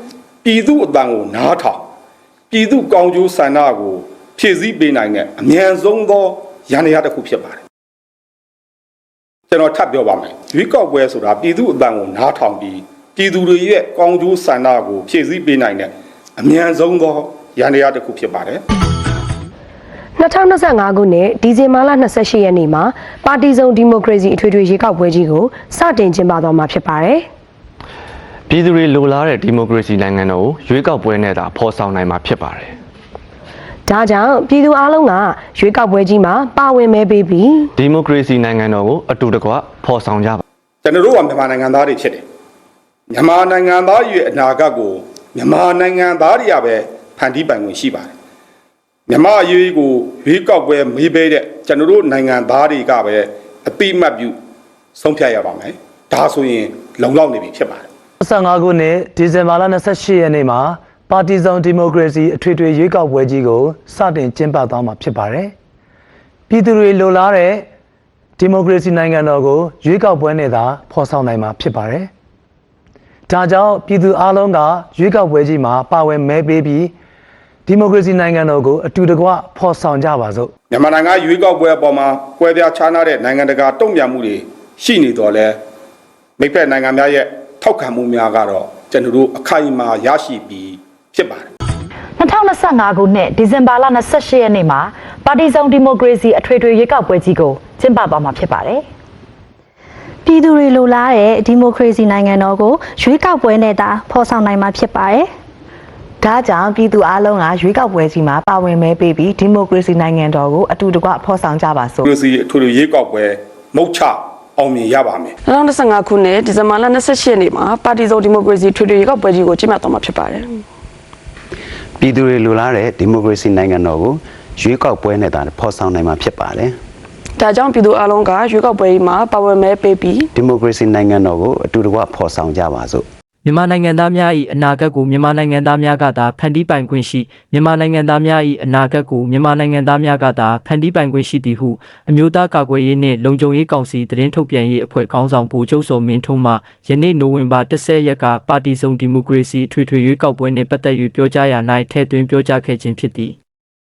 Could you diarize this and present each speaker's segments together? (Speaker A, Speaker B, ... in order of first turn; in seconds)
Speaker A: 0.4-1.8, 2.5-7.6, 9.5-18.6, 40.9-42.2, 43.1-48.1, 49.1-54.3, 55.0-57.9, 80.7-85.6, 86.4-91.5, 112.0-115.3
Speaker B: 20.2-27.3, 33.9-37.7
Speaker C: 28.5-32.7, 37.8-40.4
Speaker D: 58.2-65.5, 66.5-67.7, 68.4-72.1, 73.3-76.9, 77.7-80.5
Speaker E: 92.2-98.8
Speaker F: 100.3-105.3
Speaker G: 106.2-112.1
Speaker H: 115.4-120.6, 127.4-130.3
Speaker I: 122.0-126.8, 130.4-133.1
Speaker J: 133.4-153.4